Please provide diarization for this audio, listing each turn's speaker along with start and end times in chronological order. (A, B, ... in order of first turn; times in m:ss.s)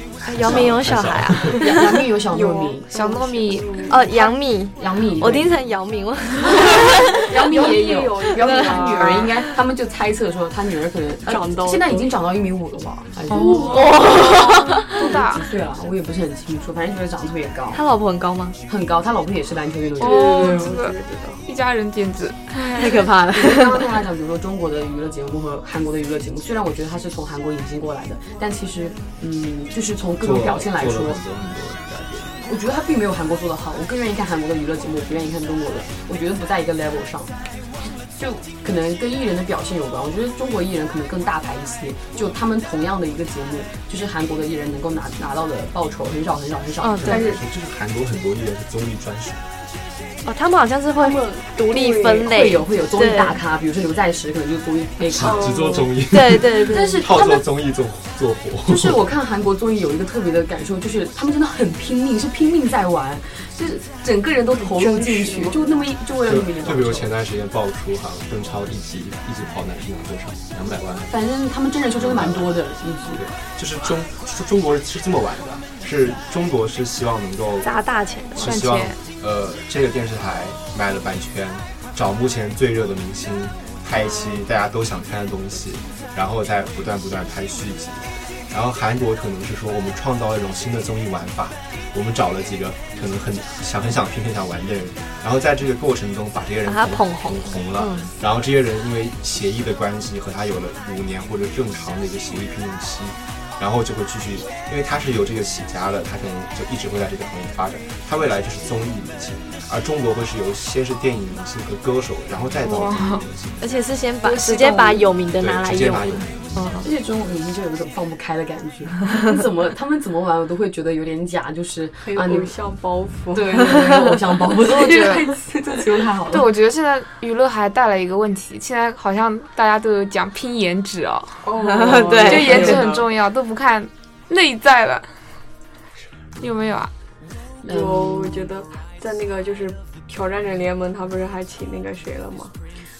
0:00.2-0:02.0 A
0:00.4-0:00.8 B
0:00.4-0:01.6 C
0:01.5-0:02.9 B
0:02.3-0:04.3 D
0:02.9-0:03.8 E
0:03.9-0:07.3 A
0:04.8-0:05.5 B
0:07.2-0:14.1 B
0:07.3-0:09.4 D
0:08.3-0:09.4 A
0:11.2-0:12.1 D
0:13.3-0:13.8 E
0:13.3-0:14.1 D
0:13.7-0:14.9 A
0:14.8-0:17.8 B
0:14.9-0:15.4 E
0:17.7-0:18.6 A
0:18.7-0:20.6 B
0:20.0-0:21.4 D
0:20.0-0:23.1 E
0:22.7-0:23.9 A
0:23.3-0:31.2 B
0:30.2-0:32.4 C
0:32.4-0:37.3 B
0:38.1-0:47.4 B
0:46.8-0:47.3 A
0:47.0-0:49.4 C
0:50.2-0:53.4 A
0:50.9-0:52.3 D
0:52.2-0:55.5 B
0:55.1-0:59.0 C
0:55.2-0:56.0 D
0:56.1-0:57.1 A
0:56.6-0:57.4 B
0:58.6-1:07.1 B
1:04.6-1:05.6 D
1:06.2-1:11.2 C
1:11.1-1:13.2 B
1:12.0-1:12.6 C
1:13.1-1:17.8 C
1:17.6-1:18.6 A
1:18.3-1:53.6 C
1:18.4-1:19.0 E
1:36.7-1:38.1 A
1:52.6-1:53.2 E
1:53.6-1:56.8 A
1:55.4-1:56.6 C
1:56.8-2:02.6 B
2:02.0-2:04.2 D
2:03.3-2:06.5 B
2:04.7-2:05.3 E
2:06.3-2:11.5 E
2:11.4-2:13.1 D
2:11.7-2:12.8 A
2:12.2-2:15.2 E
2:16.4-2:16.9 E
2:17.6-2:18.5 B
2:17.6-2:22.5 D